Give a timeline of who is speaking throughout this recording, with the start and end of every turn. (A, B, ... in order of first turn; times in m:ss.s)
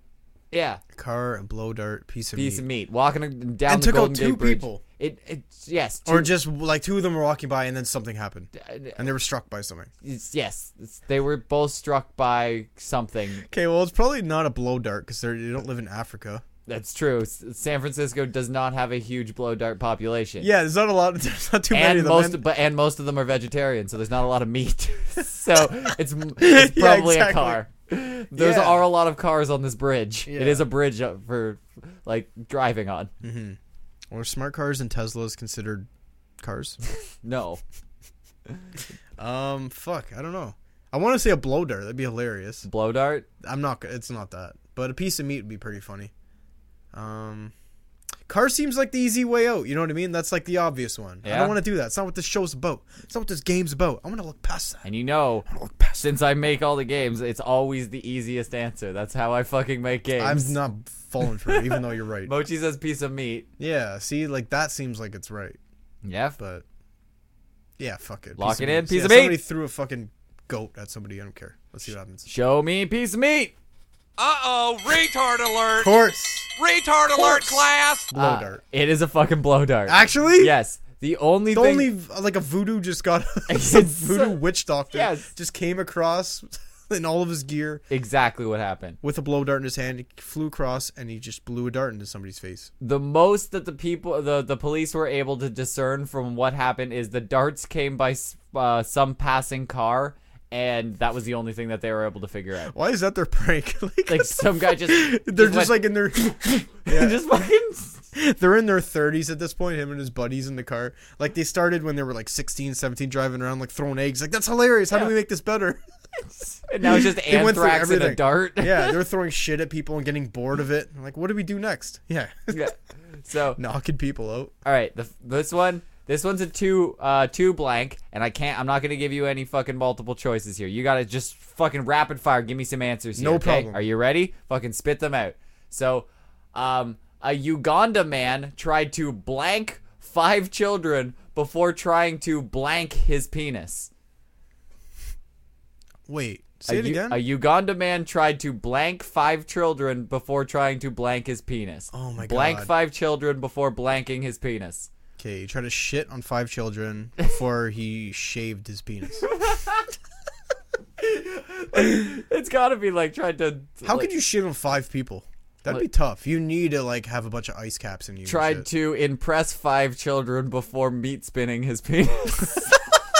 0:00.5-0:00.8 A
0:01.0-0:02.6 B
0:02.4-0:06.3 A
0:03.7-0:04.8 B
0:06.1-0:09.9 B
0:08.6-0:09.0 A
0:10.0-0:13.4 A
0:13.5-0:16.4 B
0:16.7-0:20.5 A
0:20.4-0:22.4 B
0:21.7-0:33.1 A
0:26.4-0:27.6 B
0:28.4-0:28.8 B
0:30.3-0:30.6 B
0:33.2-0:33.6 B
0:34.1-0:35.9 B
0:36.4-0:36.8 B
0:37.2-0:37.6 A
0:39.2-0:42.7 B
0:42.6-0:43.3 A
0:43.4-0:46.1 B
0:46.9-0:47.5 B
0:48.3-0:54.9 B
0:51.2-0:51.6 A
0:54.8-0:55.5 A
0:55.5-0:56.1 B
0:56.0-1:00.6 A
1:00.2-1:02.3 B
1:01.5-1:03.5 A
1:03.6-1:05.6 B
1:06.0-1:06.4 A
1:06.4-1:06.6 B
1:07.8-1:12.3 B
1:08.4-1:09.4 A
1:12.3-1:13.5 A
1:14.2-1:16.0 C
1:15.8-1:16.5 B
1:16.6-1:18.1 C
1:17.2-1:18.6 B
1:18.2-1:21.9 A
1:19.9-1:20.5 B
1:21.5-1:27.8 B
1:23.5-1:24.4 A
1:24.9-1:25.3 A
1:27.9-1:29.0 A
1:29.0-1:32.7 B
1:32.8-1:42.7 A
1:42.7-1:47.2 B
1:44.1-1:45.9 A
1:46.8-1:48.0 A
1:48.1-1:55.8 B
1:56.7-1:59.0 A
1:56.8-2:02.7 B
2:02.5-2:03.6 A
2:03.6-2:04.5 B
2:04.6-2:23.9 A
2:13.2-2:13.8 B
2:26.1-2:27.2 B
2:26.7-2:34.9 A
2:31.9-2:32.7 B
2:35.2-2:39.3 B
2:39.2-2:39.9 A
2:41.0-2:44.1 A
2:41.8-2:42.1 B
2:43.8-2:48.7 B
2:48.3-2:52.8 A